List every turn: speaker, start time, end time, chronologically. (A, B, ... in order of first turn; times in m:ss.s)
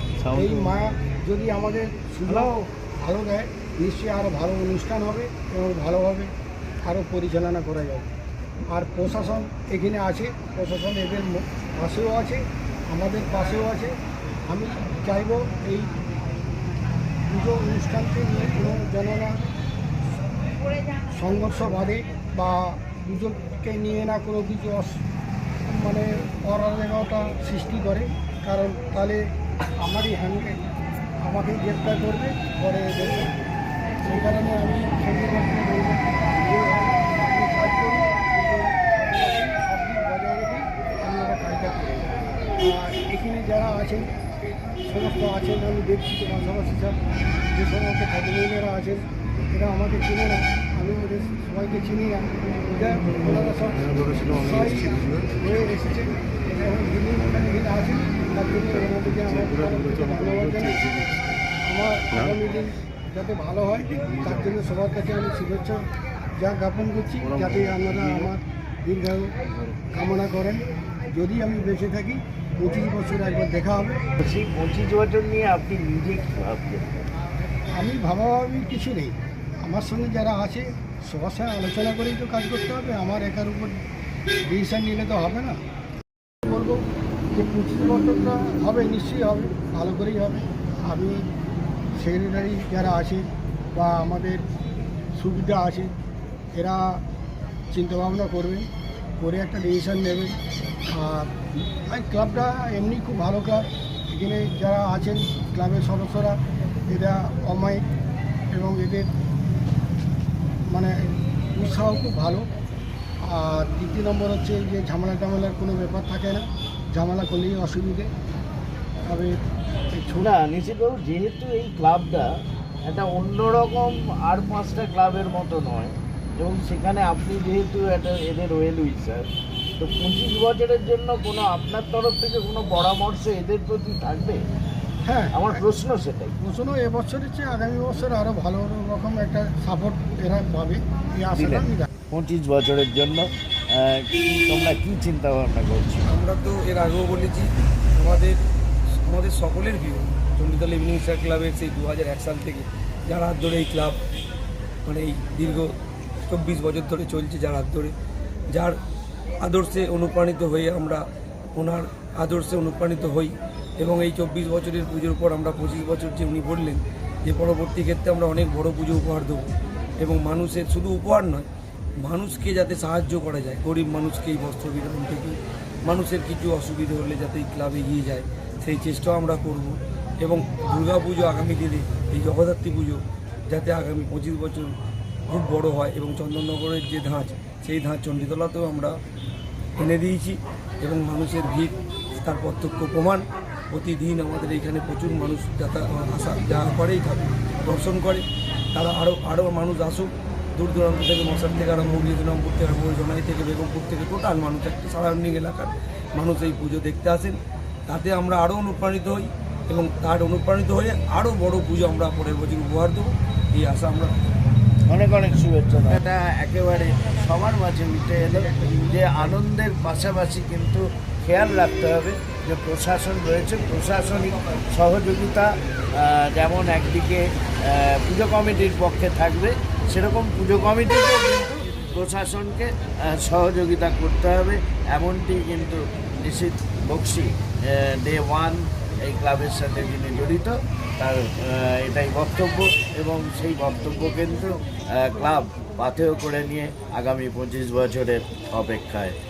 0:00.2-0:00.8 A
0:00.3-0:06.3 B
0:06.9-0:08.1 B
0:08.7-0:13.9 B
0:14.5-0:15.9 B
0:17.3-0:19.4 B
0:21.1-0:24.9 B
0:25.7-0:30.6 B
0:31.2-0:33.3 B
0:34.1-0:44.1 B
0:44.8-0:47.0 B
0:47.5-1:00.9 B
1:01.7-1:05.8 B
1:06.4-1:09.3 B
1:09.9-1:14.0 B
1:14.2-1:16.9 A
1:17.8-1:23.8 B
1:24.4-1:25.6 B
1:26.5-1:26.8 B
1:27.3-1:31.2 B
1:32.0-1:34.4 B
1:35.1-1:35.9 B
1:36.6-1:37.0 B
1:37.7-1:38.7 B
1:39.2-1:40.4 B
1:40.9-1:47.8 B
1:48.5-1:49.1 B
1:50.7-1:52.5 B
1:53.2-1:58.1 B
1:59.1-1:59.4 B
2:00.1-2:02.3 A
2:02.8-2:09.3 A
2:09.8-2:14.4 A
2:15.0-2:15.6 B
2:15.3-2:16.4 A
2:16.4-2:21.9 B
2:21.4-2:26.0 A
2:26.1-2:28.4 C
2:29.0-2:34.0 C
2:34.8-2:37.9 C
2:38.5-2:38.8 C
2:39.4-2:41.0 C
2:41.6-2:51.5 C
2:52.0-3:04.7 C
3:05.3-3:09.0 C
3:09.8-3:34.1 C
3:34.9-4:09.2 A